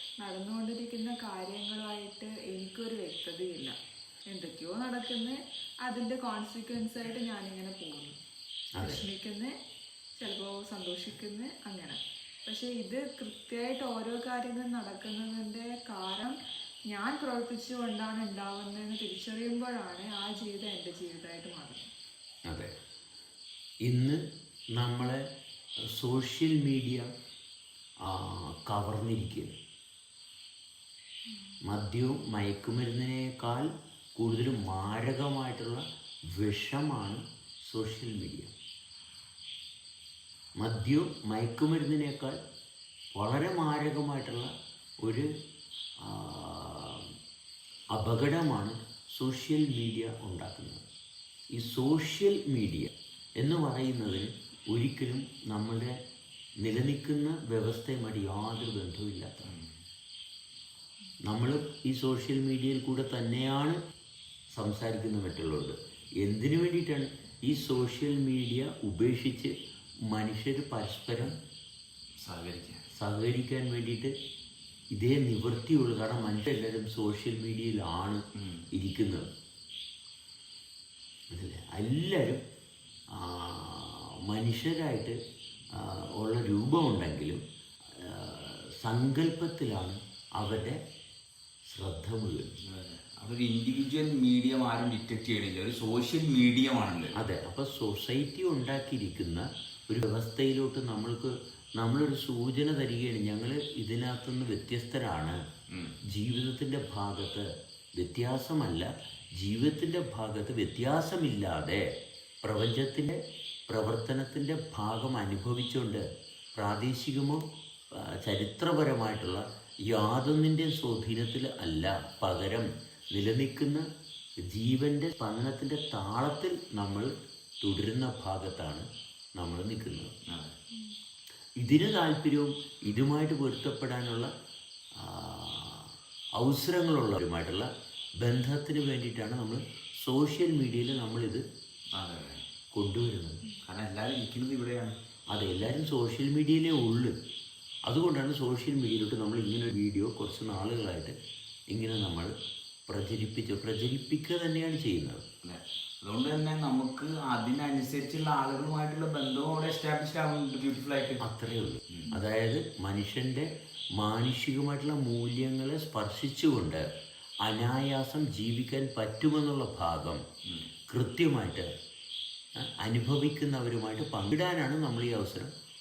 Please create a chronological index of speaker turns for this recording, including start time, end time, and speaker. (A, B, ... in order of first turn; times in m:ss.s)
0:00.2-0:03.7 A
0:04.3-0:08.2 A
0:08.8-0:09.0 B
0:08.8-0:09.5 A
0:10.2-0:16.4 A
0:16.9-0:21.9 A
0:23.8-0:24.2 B
0:24.8-0:25.2 B
0:25.9-0:27.0 B
0:28.0-0:29.6 B
0:31.7-0:35.8 B
0:36.3-0:38.5 B
0:40.6-0:42.4 B
0:43.1-0:44.5 B
0:45.0-0:45.3 B
0:46.0-0:47.1 B
0:47.9-0:50.8 B
0:51.5-0:55.9 B
0:56.6-0:59.5 B
1:01.3-1:03.8 B
1:04.5-1:09.5 B
1:10.1-1:11.4 B
1:12.2-1:12.8 C
1:12.9-1:14.1 B
1:14.9-1:19.3 B
1:18.4-1:18.7 C
1:21.3-1:22.4 B
1:23.1-1:25.2 B
1:25.7-1:27.4 B
1:27.9-1:30.8 B
1:31.7-1:32.6 B
1:32.6-1:37.2 C
1:37.1-1:45.4 B
1:45.7-1:46.0 C
1:46.1-1:51.9 B
1:52.4-2:03.8 B
2:04.5-2:07.1 B
2:07.6-2:08.8 B
2:09.4-2:10.1 B
2:10.3-2:10.6 C
2:11.6-2:14.3 B
2:15.0-2:17.7 B
2:18.2-2:21.4 B
2:21.9-2:22.4 C
2:22.7-2:23.5 B
2:23.6-2:25.0 C
2:25.3-2:27.1 B
2:27.9-2:31.2 B
2:31.7-2:32.3 B
2:32.9-2:35.2 B
2:35.4-2:41.2 C
2:41.2-2:46.8 B
2:47.4-2:50.2 B
2:50.9-2:51.7 B
2:52.6-2:55.5 B